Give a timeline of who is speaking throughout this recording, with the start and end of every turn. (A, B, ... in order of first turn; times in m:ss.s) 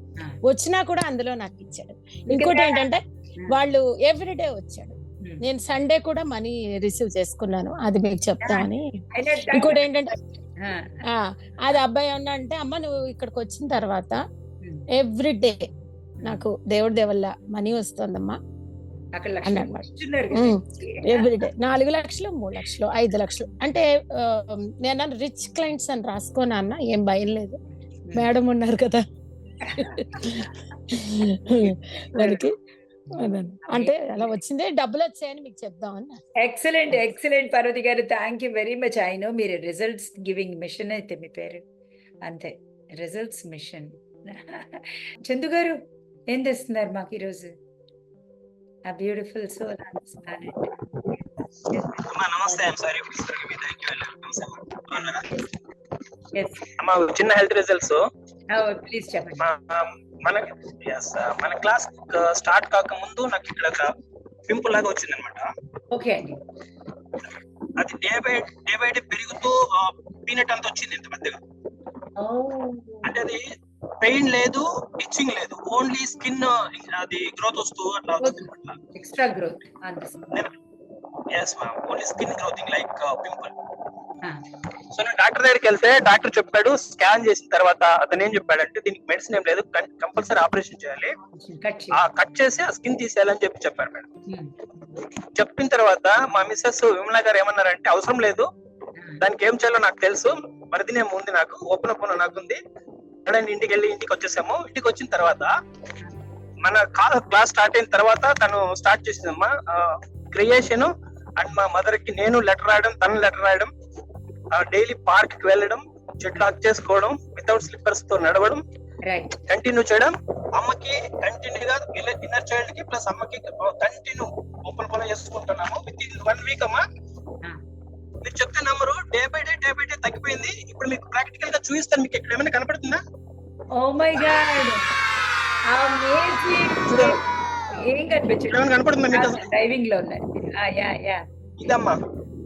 0:00.4-0:08.8 A
0:02.3-0:02.9 B
0:08.4-0:09.8 B
0:09.5-0:10.2 A
0:10.6-0:11.0 B
0:11.1-0:14.2 A
0:14.9-0:15.6 A
0:16.2-0:18.4 A
0:19.1-0:21.4 B
0:19.4-0:27.6 A
0:28.0-0:28.3 B
0:28.1-0:29.0 A
0:29.6-0:30.5 B
0:29.8-0:32.5 A
0:31.6-0:32.4 B
0:33.1-0:34.3 B
0:33.2-0:36.2 A
0:36.4-0:41.6 B
0:42.2-0:45.8 B
0:46.3-0:47.5 B
0:48.8-0:50.7 B
0:51.7-0:52.7 B
0:52.1-0:55.3 C
0:55.0-0:55.4 B
0:56.3-0:56.7 B
0:56.8-0:58.0 C
0:58.5-0:59.5 B
0:59.4-1:03.9 C
1:04.5-1:05.4 C
1:05.9-1:06.4 B
1:07.8-1:11.4 C
1:12.2-1:13.0 B
1:13.1-1:13.4 C
1:14.0-1:18.8 C
1:18.2-1:20.4 B
1:21.3-1:23.5 C
1:24.9-1:31.1 C
1:31.4-1:32.0 B
1:32.0-1:34.1 C
1:34.3-1:34.9 B
1:35.3-1:38.5 C
1:39.2-1:42.6 C
1:43.2-1:45.5 C
1:46.6-1:53.7 C
1:54.5-1:58.6 C
1:59.0-1:59.4 B
1:59.5-2:06.8 C
2:08.2-2:13.0 C
2:13.7-2:14.8 B
2:15.7-2:17.2 B
2:16.9-2:17.2 C
2:17.7-2:21.2 B
2:18.5-2:19.4 C
2:21.6-2:22.0 C